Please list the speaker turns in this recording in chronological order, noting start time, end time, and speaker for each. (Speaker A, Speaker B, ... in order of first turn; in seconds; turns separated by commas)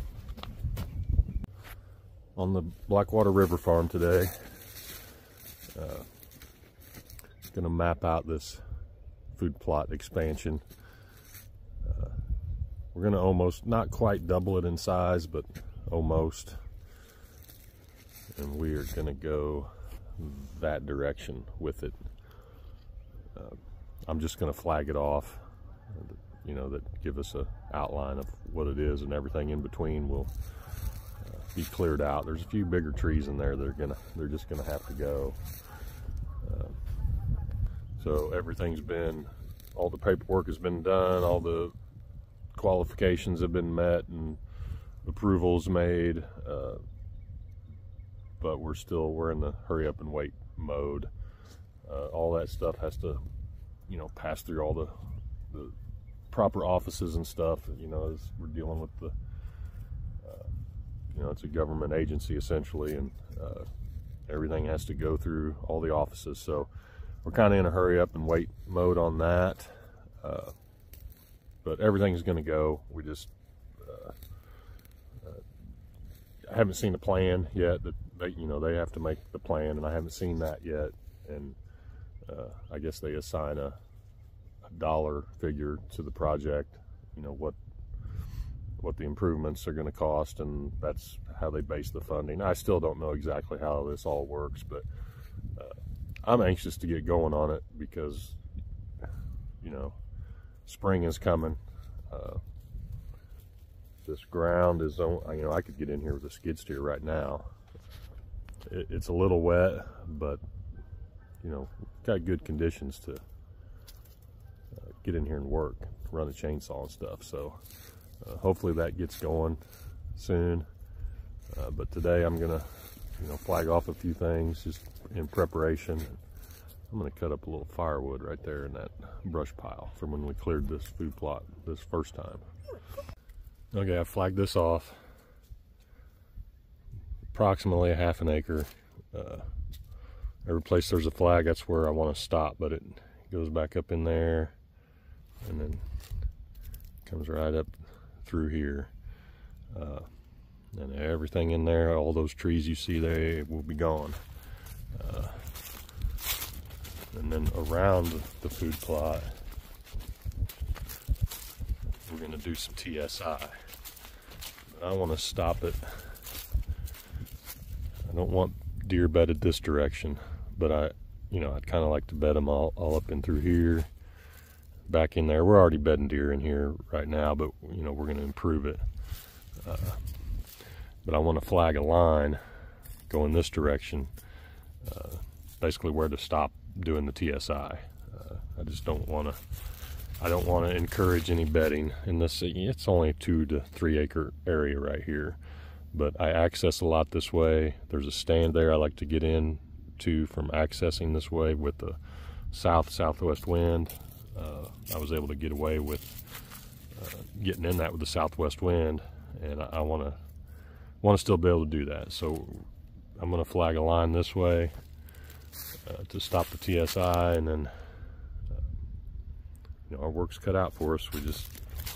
Speaker A: 2.4-4.6, Speaker A: 5.7-6.1, Speaker A: 7.5-8.6, Speaker A: 9.3-10.6, Speaker A: 11.8-12.2, Speaker A: 12.9-16.6, Speaker A: 18.3-22.0, Speaker A: 23.3-30.3, Speaker A: 31.2-35.4, Speaker A: 36.4-36.8, Speaker A: 38.0-41.7, Speaker A: 42.5-44.4, Speaker A: 45.0-46.8, Speaker A: 48.4-51.1, Speaker A: 51.8-53.2, Speaker A: 53.9-54.9, Speaker A: 55.5-55.8, Speaker A: 56.3-59.1, Speaker A: 60.2-60.5, Speaker A: 61.1-63.7, Speaker A: 64.3-66.7, Speaker A: 67.2-70.5, Speaker A: 71.6-74.2, Speaker A: 76.5-81.6, Speaker A: 82.2-83.8, Speaker A: 84.6-87.6, Speaker A: 88.8-94.8, Speaker A: 95.5-98.4, Speaker A: 99.6-100.0, Speaker A: 100.7-101.6, Speaker A: 102.1-102.4, Speaker A: 104.0-107.5, Speaker A: 108.7-110.4, Speaker A: 111.4-113.2, Speaker A: 114.7-117.6, Speaker A: 118.2-119.6, Speaker A: 120.1-120.7, Speaker A: 121.5-126.2, Speaker A: 126.9-132.4, Speaker A: 133.7-135.0, Speaker A: 137.3-139.5, Speaker A: 140.4-144.5, Speaker A: 145.4-145.8, Speaker A: 147.0-148.9, Speaker A: 149.7-150.1, Speaker A: 150.7-154.2, Speaker A: 154.9-155.5, Speaker A: 157.1-159.4, Speaker A: 162.1-163.7, Speaker A: 164.7-166.2, Speaker A: 168.0-173.9, Speaker A: 174.9-178.8, Speaker A: 179.6-180.1, Speaker A: 181.0-182.4, Speaker A: 183.1-184.1, Speaker A: 184.8-189.5, Speaker A: 190.2-195.4, Speaker A: 195.9-210.2, Speaker A: 211.0-214.7, Speaker A: 215.8-217.7, Speaker A: 219.9-221.5